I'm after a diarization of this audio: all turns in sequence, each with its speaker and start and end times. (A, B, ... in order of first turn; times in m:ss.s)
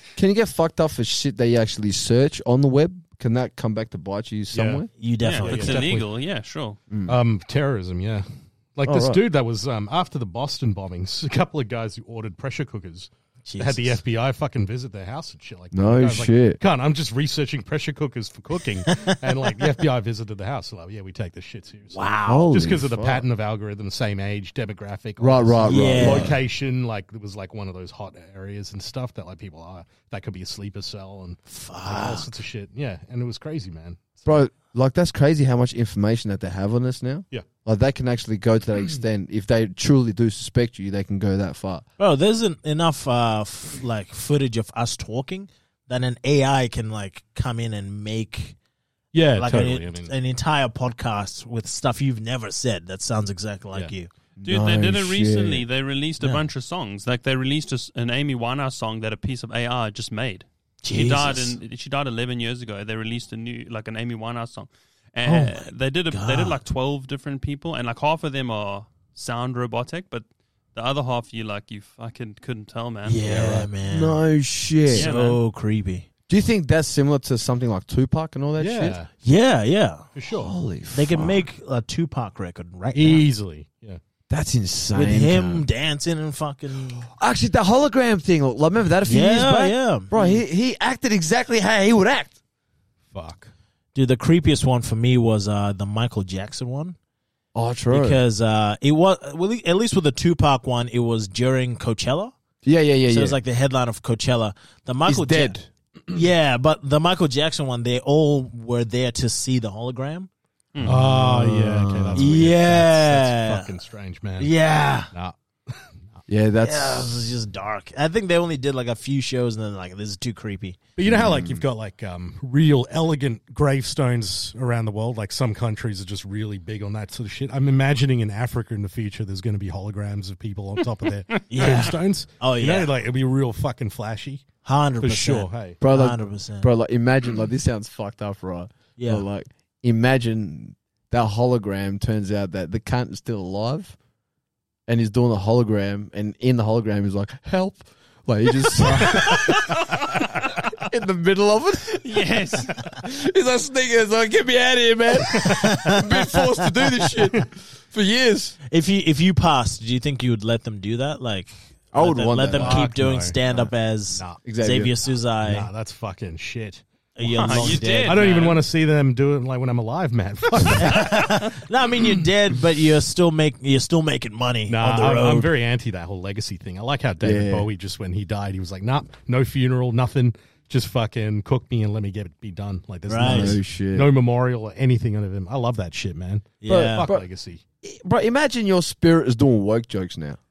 0:00.2-0:04.9 A
0:04.5-0:04.9 B
0:05.0-0:05.9 C
0:05.2-0:06.8 D
0:05.4-0:06.1 B
0:06.9-0:07.2 A
0:07.0-0:34.4 B
0:08.8-0:09.2 A
0:13.4-0:14.0 C
0:15.7-0:16.6 A
0:18.9-0:19.2 C
0:21.9-0:22.5 C
0:22.3-0:23.2 A
0:25.2-0:26.3 A
0:25.6-0:26.3 C
0:31.4-0:32.3 C
0:34.2-0:41.8 A
0:42.0-0:48.6 C
0:49.1-0:50.1 B
0:49.3-0:54.1 C
0:54.4-0:55.6 A
0:54.4-1:13.2 D
1:00.8-1:01.6 C
1:05.2-1:06.6 C
1:13.0-1:14.2 C
1:13.2-1:13.7 B
1:13.9-1:15.1 A
1:14.9-1:16.1 C
1:14.9-1:15.4 D
1:16.3-1:19.0 A
1:18.6-1:19.1 B
1:19.2-1:20.1 C
1:20.1-1:20.5 B
1:20.3-1:21.4 A
1:20.9-1:23.2 C
1:22.9-1:24.0 B
1:24.3-1:25.6 A
1:24.9-1:27.1 C
1:27.0-1:32.4 A
1:29.0-1:30.1 C
1:30.1-1:30.4 B
1:33.1-1:33.5 B
1:33.9-1:37.0 C
1:37.5-1:38.2 A
1:37.9-1:42.3 C
1:42.6-1:43.4 A
1:43.1-1:45.5 C
1:45.0-1:45.7 A
1:46.1-1:50.3 C
1:50.8-1:52.5 A
1:50.8-1:54.5 B
1:52.1-1:53.7 C
1:54.4-1:55.1 C
1:55.1-1:56.2 B
1:56.3-1:57.3 A
1:56.6-2:00.8 C
2:01.0-2:14.5 B
2:01.0-2:01.6 A
2:11.5-2:12.9 C
2:14.6-2:16.7 C
2:15.0-2:15.8 B
2:15.8-2:24.0 A
2:19.0-2:19.2 C
2:24.9-2:38.6 A
2:29.1-2:30.6 D
2:32.0-2:33.0 D
2:35.3-2:36.2 C
2:38.7-2:45.7 C
2:41.9-2:42.9 A
2:42.5-2:44.4 B
2:44.4-2:44.9 A
2:45.4-2:51.4 B
2:47.1-2:48.5 C
2:47.4-2:48.6 D
2:50.7-2:55.5 C
2:54.7-3:07.6 B
2:57.2-2:57.7 A
3:03.1-3:03.6 C
3:03.2-3:04.1 A
3:06.6-3:07.1 C
3:06.7-3:07.2 A
3:07.8-3:10.4 A